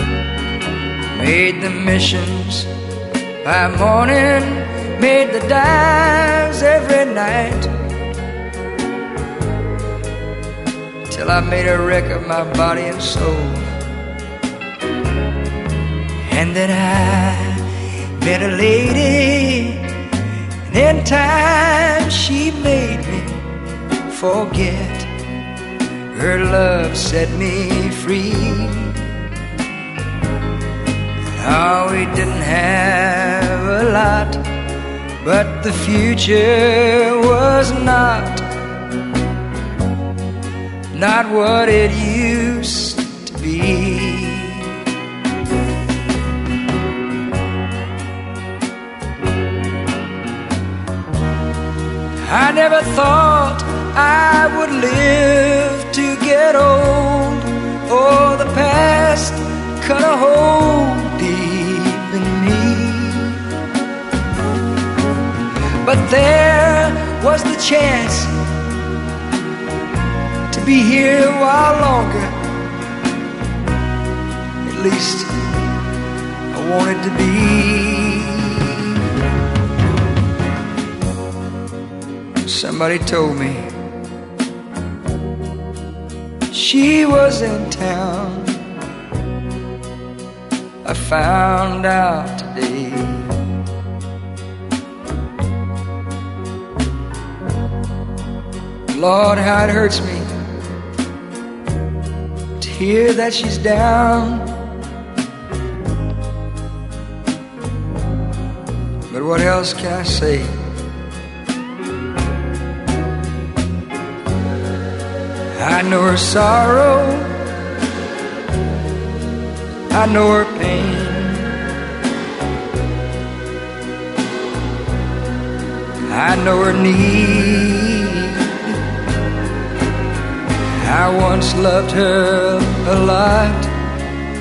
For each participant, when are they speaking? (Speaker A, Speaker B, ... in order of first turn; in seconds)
Speaker A: 1.1-2.7, 3.4-7.7, 11.1-13.7, 16.2-17.6, 18.2-19.9, 20.7-23.4, 24.1-25.1, 26.1-29.0, 31.4-34.4, 35.2-38.5, 40.9-44.7, 52.2-63.4, 65.8-68.3, 70.5-72.3, 74.6-75.3, 76.5-79.0, 82.4-83.7, 86.5-88.6, 90.8-93.3, 98.9-100.2, 102.6-104.6, 109.1-110.5, 115.5-117.4, 119.9-121.5, 126.1-128.8, 130.8-133.7